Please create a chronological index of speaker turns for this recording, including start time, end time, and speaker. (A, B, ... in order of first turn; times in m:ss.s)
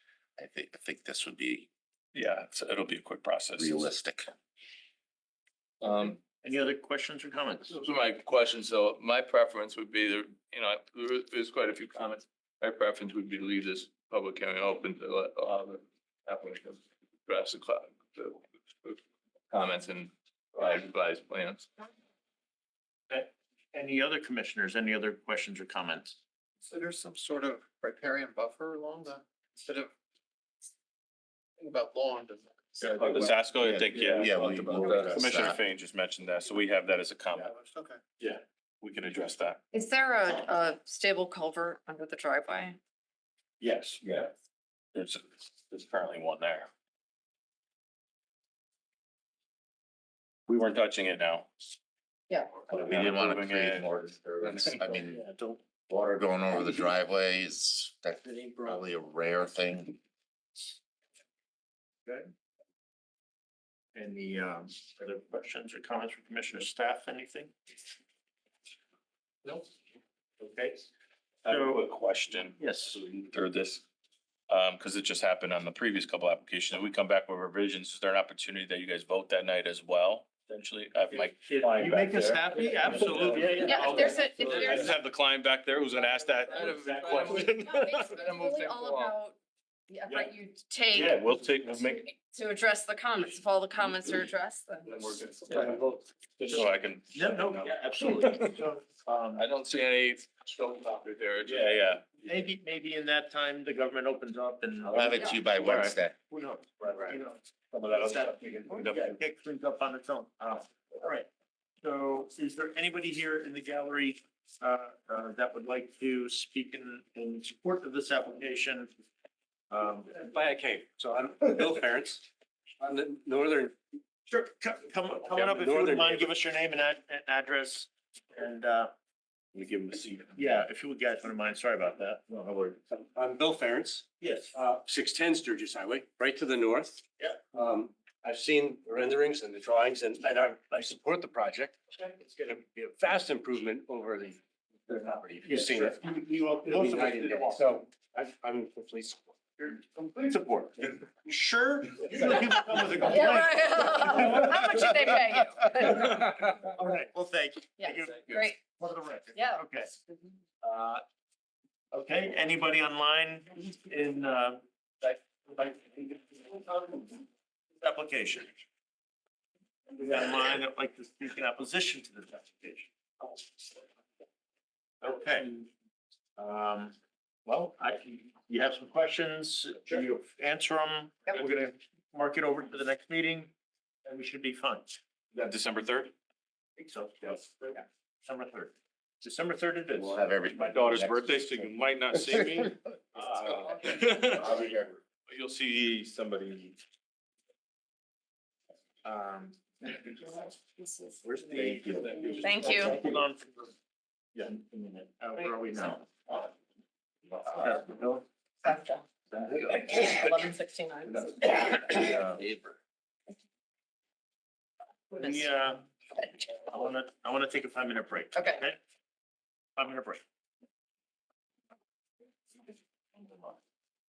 0:00.4-0:01.7 A
0:02.1-0:03.9 B
0:03.6-0:04.3 A
0:05.8-0:06.2 C
0:06.2-0:07.7 D
0:07.7-0:19.0 C
0:19.5-0:21.7 C
0:23.1-0:26.2 D
0:26.7-0:29.9 E
0:31.6-0:33.4 E
0:33.0-0:37.5 B
0:33.6-0:35.6 A
0:34.1-0:35.2 E
0:37.6-0:38.0 E
0:38.2-0:39.6 B
0:39.7-0:42.8 F
0:43.6-0:44.3 B
0:44.9-0:46.7 B
0:50.5-0:51.5 B
0:52.7-0:53.9 B
0:52.7-1:00.0 A
0:54.4-0:55.0 B
0:58.4-0:58.7 G
1:02.1-1:02.3 D
1:04.0-1:07.5 D
1:10.4-1:10.9 D
1:11.4-1:13.8 B
1:11.5-1:11.8 D
1:12.6-1:13.0 D
1:14.5-1:28.1 B
1:21.4-1:24.9 D
1:23.6-1:25.0 F
1:26.5-1:27.4 E
1:27.1-1:29.4 F
1:27.1-1:27.5 G
1:28.1-1:29.1 E
1:29.9-1:35.1 F
1:30.9-1:32.0 B
1:34.9-1:35.8 B
1:36.4-1:38.6 B
1:36.5-1:39.5 D
1:39.4-1:41.8 C
1:41.5-1:42.1 B
1:42.2-1:51.3 D
1:44.9-1:46.2 A
1:47.7-1:49.1 B
1:51.8-1:58.9 D
1:59.7-2:00.2 D
2:00.1-2:02.3 G
2:02.8-2:03.8 G
2:04.3-2:08.9 D
2:05.3-2:06.3 G
2:09.5-2:10.6 B
2:10.4-2:12.8 D
2:12.9-2:26.1 G
2:14.2-2:14.6 D
2:25.4-2:27.6 D
2:26.6-2:29.4 G
2:29.6-2:39.9 D
2:32.1-2:33.3 G
2:33.0-2:36.4 F
2:37.8-2:38.6 F
2:39.4-2:40.3 F
2:40.6-2:41.0 D
2:41.9-2:47.2 D
2:47.8-2:48.6 D
2:49.9-2:53.4 D
2:55.0-2:55.7 D
2:56.4-3:03.5 D
3:04.0-3:05.0 D
3:05.3-3:06.1 B
3:06.8-3:10.2 D
3:10.0-3:11.7 A
3:10.6-3:14.7 B
3:13.2-3:14.7 D
3:14.2-3:14.8 A
3:15.3-3:16.8 B
3:19.0-3:20.3 D
3:20.8-3:21.2 F
3:21.2-3:23.7 D
3:21.4-3:22.4 A
3:22.1-3:22.4 B
3:22.4-3:23.0 F
3:24.4-3:26.5 D
3:27.3-3:28.2 D
3:28.6-3:32.3 F
3:31.9-3:32.4 D
3:35.2-3:35.8 D
3:36.2-3:36.5 F
3:36.6-3:38.8 D
3:38.4-3:38.6 F
3:39.8-3:40.2 D